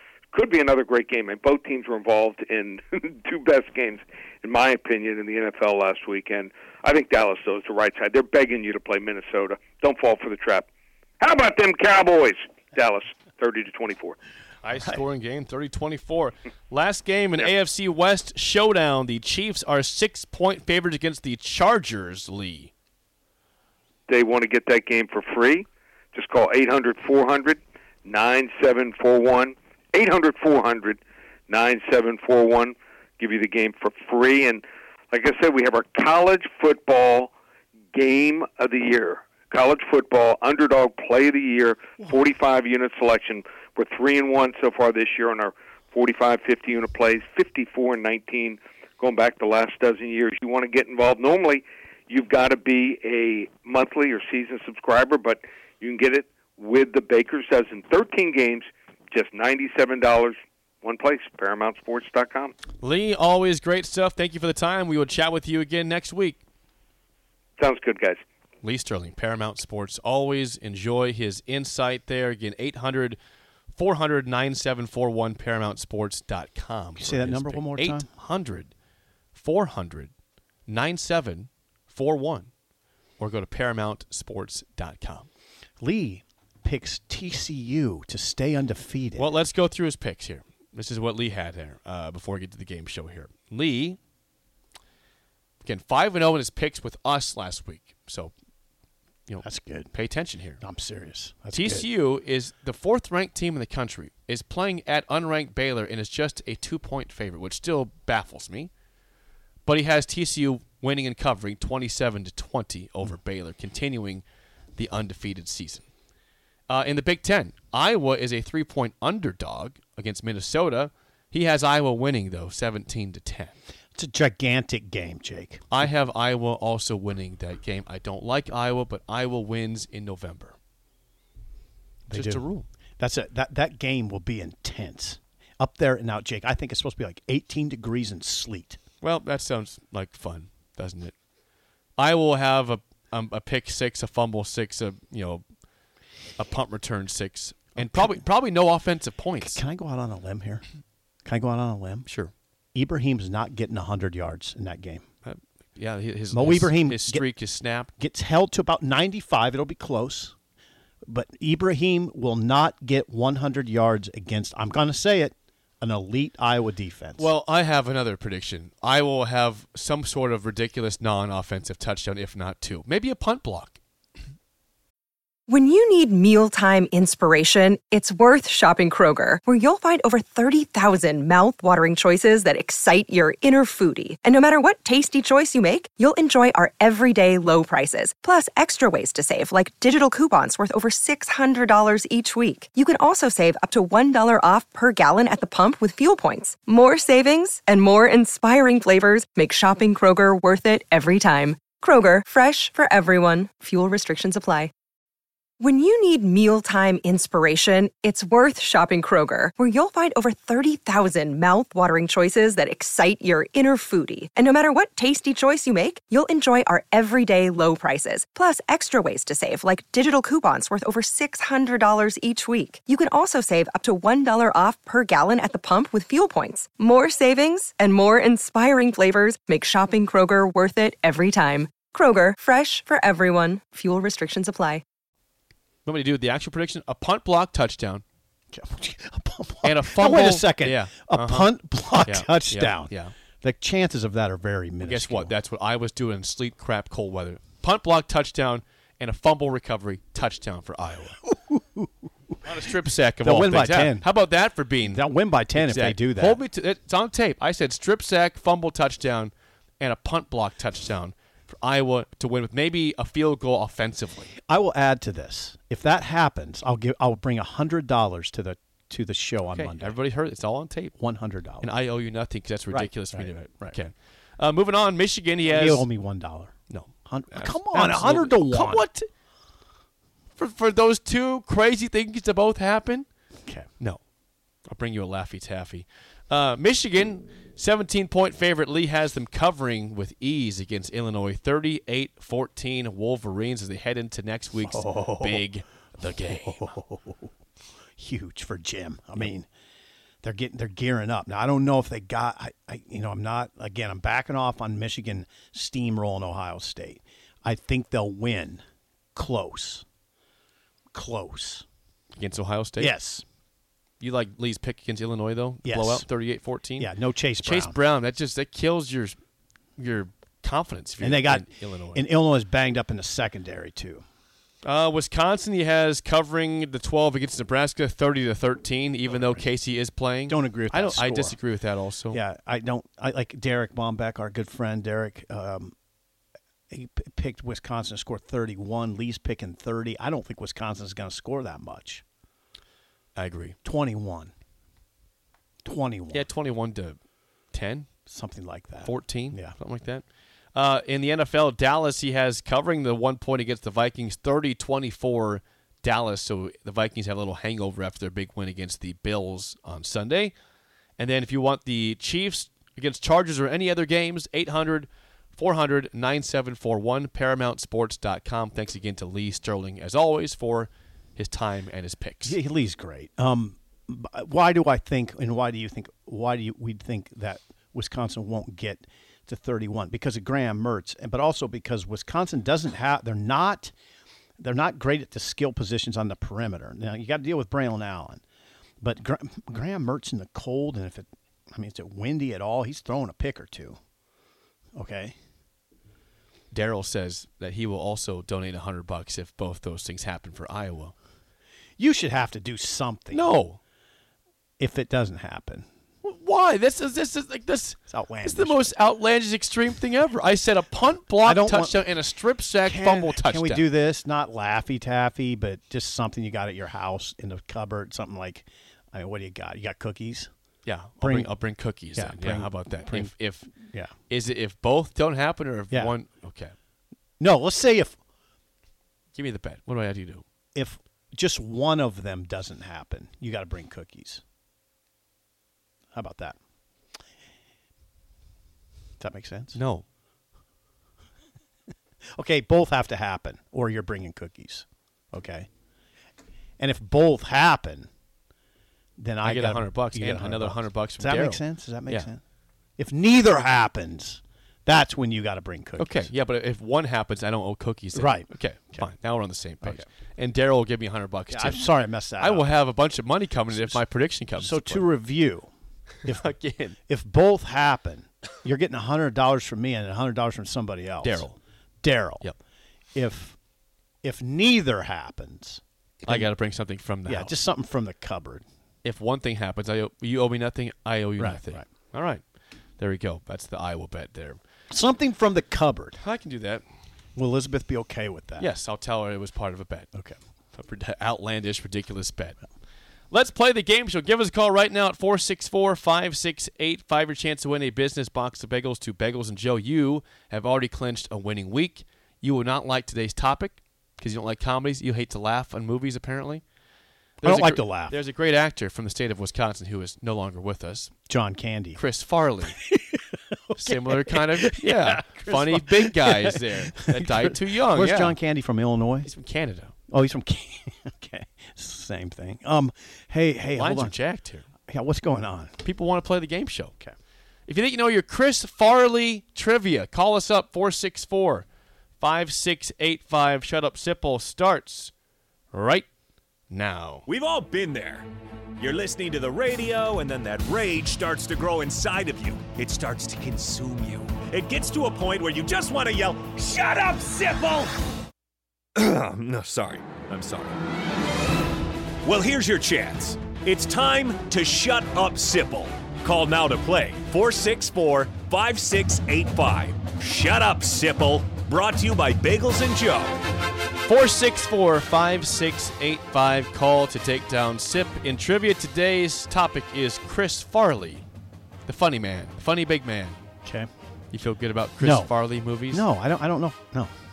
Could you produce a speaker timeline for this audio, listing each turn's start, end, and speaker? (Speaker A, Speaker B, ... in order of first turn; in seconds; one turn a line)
Speaker A: 0.3-10.7
Speaker A: 11.2-14.2
Speaker B: 14.6-22.7
Speaker A: 24.1-37.3
Speaker A: 37.9-62.5
Speaker B: 62.8-66.4
Speaker A: 67.6-68.2
Speaker B: 68.6-73.2
Speaker B: 73.8-78.7
Speaker C: 77.0-78.1
Speaker B: 79.3-80.1
Speaker B: 80.7-82.5
Speaker B: 83.2-85.3
Speaker C: 85.8-89.3
Speaker B: 89.2-94.0
Speaker B: 95.6-98.3
Speaker B: 99.3-100.6
Speaker C: 99.4-99.9
Speaker C: 100.6-101.9
Speaker B: 101.5-108.7
Speaker B: 109.7-114.2
Speaker B: 114.8-115.9
Speaker B: 116.7-123.5
Speaker C: 124.0-125.7
Speaker B: 125.7-130.6
Speaker C: 132.1-132.4
Speaker B: 132.1-132.7
Speaker C: 133.0-138.8
Speaker B: 139.0-141.2
Speaker B: 142.0-145.4
Speaker B: 146.4-149.6
Speaker C: 147.8-148.2
Speaker C: 149.4-150.7
Speaker C: 151.2-152.1
Speaker B: 152.1-152.3
Speaker C: 152.7-155.1
Speaker B: 155.2-157.9
Speaker C: 156.3-157.3
Speaker C: 158.0-160.3
Speaker C: 161.1-167.3
Speaker B: 167.2-173.8
Speaker D: 175.5-204.7
Speaker D: 205.6-234.8
Speaker B: 235.9-238.0
Speaker C: 238.5-245.3
Speaker B: 239.6-241.5
Speaker B: 242.0-243.1
Speaker B: 244.8-251.2
Speaker C: 251.3-252.4
Speaker B: 252.4-264.3
Speaker C: 253.2-254.1
Speaker C: 254.8-256.4
Speaker C: 264.4-270.0
Speaker B: 269.5-270.9
Speaker C: 271.0-271.7
Speaker B: 271.6-275.9
Speaker C: 272.7-273.8
Speaker C: 275.5-278.9
Speaker B: 276.7-279.1
Speaker B: 280.4-283.1
Speaker B: 284.7-296.7
Speaker C: 294.7-295.4
Speaker C: 296.2-297.3
Speaker C: 298.0-299.5
Speaker C: 300.2-308.6
Speaker C: 309.1-309.9
Speaker C: 310.9-311.6
Speaker B: 312.2-312.9
Speaker C: 312.8-313.2
Speaker B: 314.0-316.9
Speaker C: 315.6-316.1
Speaker C: 316.8-317.8
Speaker B: 317.4-319.2
Speaker B: 319.8-322.0
Speaker C: 321.0-324.0
Speaker B: 324.6-332.2
Speaker C: 329.1-329.4
Speaker C: 330.3-331.4
Speaker C: 332.1-335.7
Speaker C: 336.7-342.0
Speaker B: 343.2-343.6
Speaker C: 343.6-344.3
Speaker C: 345.6-346.3
Speaker B: 346.1-347.0
Speaker B: 347.5-347.9
Speaker C: 348.1-349.6
Speaker B: 348.8-360.3
Speaker B: 361.0-372.4
Speaker C: 372.2-383.7
Speaker C: 384.4-388.2
Speaker C: 388.8-393.8
Speaker C: 394.8-395.2
Speaker B: 396.5-400.9
Speaker C: 401.8-403.3
Speaker B: 403.1-403.6
Speaker C: 404.6-405.7
Speaker B: 406.0-413.7
Speaker C: 407.9-408.7
Speaker C: 411.2-411.9
Speaker C: 412.6-420.3
Speaker B: 420.6-423.5
Speaker C: 421.0-421.3
Speaker C: 421.9-423.9
Speaker B: 424.1-426.5
Speaker C: 427.2-428.0
Speaker B: 429.1-430.2
Speaker C: 430.6-434.2
Speaker C: 435.9-436.4
Speaker C: 439.0-439.6
Speaker B: 439.6-439.9
Speaker C: 442.1-445.5
Speaker C: 446.6-447.9
Speaker C: 449.0-452.2
Speaker B: 449.2-452.1
Speaker C: 452.8-456.1
Speaker B: 455.8-461.6
Speaker C: 457.9-458.9
Speaker C: 461.3-462.5
Speaker B: 462.2-464.9
Speaker C: 463.5-463.8
Speaker C: 464.4-465.5
Speaker C: 466.0-471.3
Speaker B: 466.1-466.8
Speaker B: 471.0-471.4
Speaker C: 471.8-472.3
Speaker C: 472.9-473.4
Speaker C: 474.0-476.3
Speaker B: 476.1-477.3
Speaker C: 477.1-478.4
Speaker B: 478.8-482.2
Speaker C: 481.2-481.7
Speaker B: 482.8-484.4
Speaker C: 484.7-486.0
Speaker B: 486.0-486.6
Speaker C: 487.2-488.5
Speaker B: 488.4-489.9
Speaker B: 490.5-492.4
Speaker B: 493.1-506.4
Speaker C: 507.2-508.0
Speaker B: 507.2-510.9
Speaker C: 511.1-511.8
Speaker B: 511.8-512.6
Speaker C: 512.6-519.1
Speaker B: 513.6-518.2
Speaker B: 519.0-519.7
Speaker C: 519.9-524.0
Speaker B: 523.6-524.5
Speaker C: 524.7-525.6
Speaker B: 525.6-526.8
Speaker B: 527.5-531.5
Speaker B: 532.0-534.9
Speaker B: 535.5-535.9
Speaker B: 536.5-537.1
Speaker E: 537.1-538.1
Speaker E: 538.6-547.8
Speaker E: 548.8-550.6
Speaker E: 552.0-563.2
Speaker B: 563.9-571.0
Speaker B: 571.7-573.2
Speaker C: 573.4-573.7
Speaker B: 574.1-575.9
Speaker C: 574.8-575.1
Speaker C: 575.7-576.9